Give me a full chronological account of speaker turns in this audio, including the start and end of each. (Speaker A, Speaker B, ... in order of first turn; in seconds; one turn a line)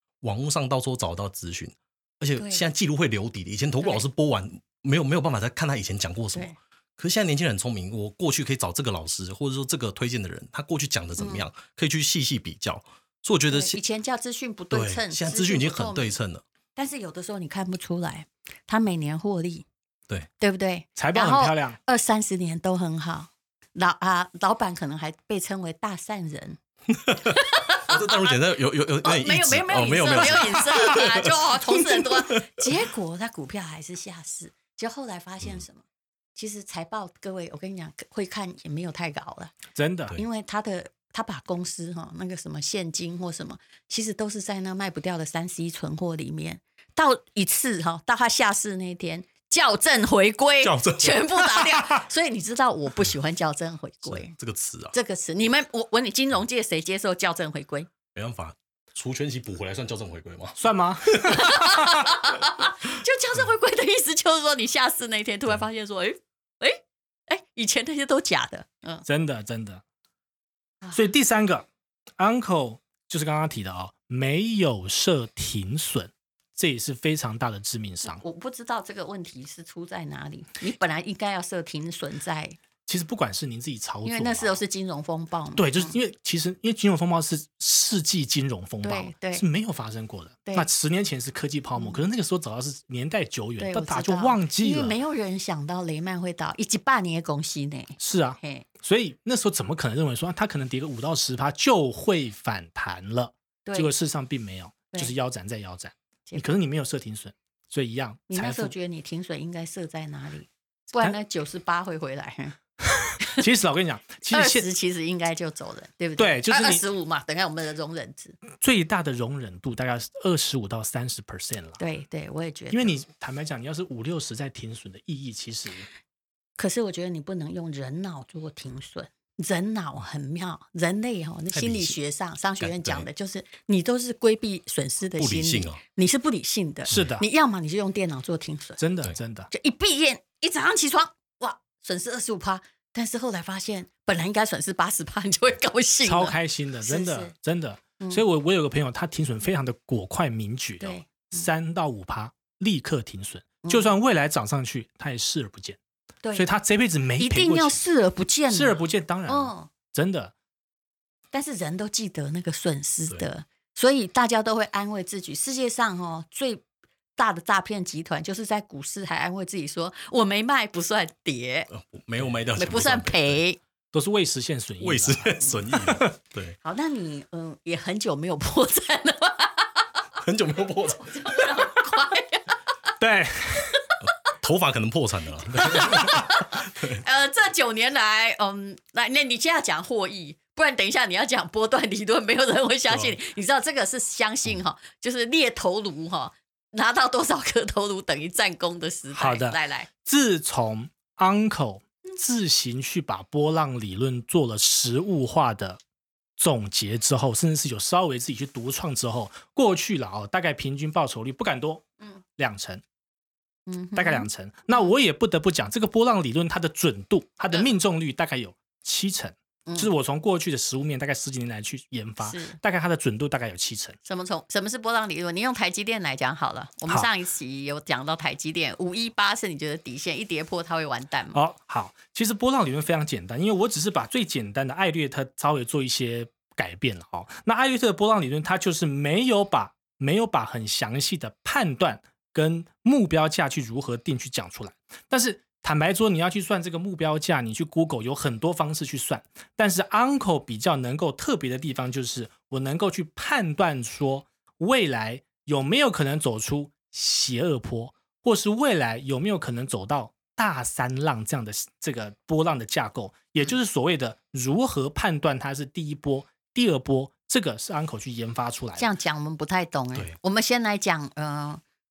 Speaker A: 0.2-13.8
Speaker B: 2.4-2.6
Speaker B: 11.2-11.5
Speaker B: 13.5-16.1
Speaker A: 14.7-16.4
Speaker B: 16.8-19.7
Speaker B: 20.4-26.6
Speaker C: 21.0-21.8
Speaker A: 27.0-32.6
Speaker B: 27.3-28.4
Speaker B: 29.0-35.8
Speaker B: 36.4-39.6
Speaker C: 39.7-40.2
Speaker B: 40.1-54.3
Speaker A: 50.6-51.6
Speaker A: 54.1-55.0
Speaker B: 54.9-57.9
Speaker A: 58.1-60.6
Speaker C: 60.6-62.1
Speaker A: 61.1-61.4
Speaker B: 61.3-69.0
Speaker C: 69.1-69.8
Speaker C: 70.9-71.7
Speaker C: 72.2-78.2
Speaker B: 78.0-82.6
Speaker C: 82.9-84.6
Speaker B: 84.0-86.0
Speaker C: 85.6-95.0
Speaker B: 88.8-89.5
Speaker B: 93.6-98.7
Speaker C: 98.0-108.7
Speaker B: 103.7-103.9
Speaker B: 108.3-112.6
Speaker C: 112.8-114.7
Speaker B: 114.3-118.4
Speaker C: 116.2-116.8
Speaker C: 118.5-121.8
Speaker B: 121.8-122.9
Speaker C: 122.7-125.9
Speaker B: 126.6-138.8
Speaker A: 131.5-132.0
Speaker A: 132.6-133.1
Speaker A: 135.2-135.8
Speaker C: 136.9-137.2
Speaker C: 138.8-139.5
Speaker B: 139.5-147.3
Speaker C: 146.0-155.8
Speaker B: 150.8-151.5
Speaker B: 153.6-153.9
Speaker C: 156.3-157.8
Speaker B: 157.2-159.7
Speaker C: 158.5-160.3
Speaker B: 161.3-166.6
Speaker B: 167.2-171.7
Speaker A: 171.7-173.4
Speaker B: 172.6-173.6
Speaker C: 173.9-176.1
Speaker A: 174.8-176.6
Speaker B: 176.6-179.8
Speaker A: 180.2-181.2
Speaker B: 181.0-182.4
Speaker C: 183.0-183.8
Speaker A: 184.4-187.0
Speaker B: 185.8-199.9
Speaker A: 192.9-193.2
Speaker C: 199.2-205.8
Speaker C: 206.4-212.8
Speaker B: 213.7-214.9
Speaker C: 213.9-224.0
Speaker B: 222.2-222.6
Speaker B: 224.1-231.4
Speaker C: 231.3-268.9
Speaker B: 268.8-271.6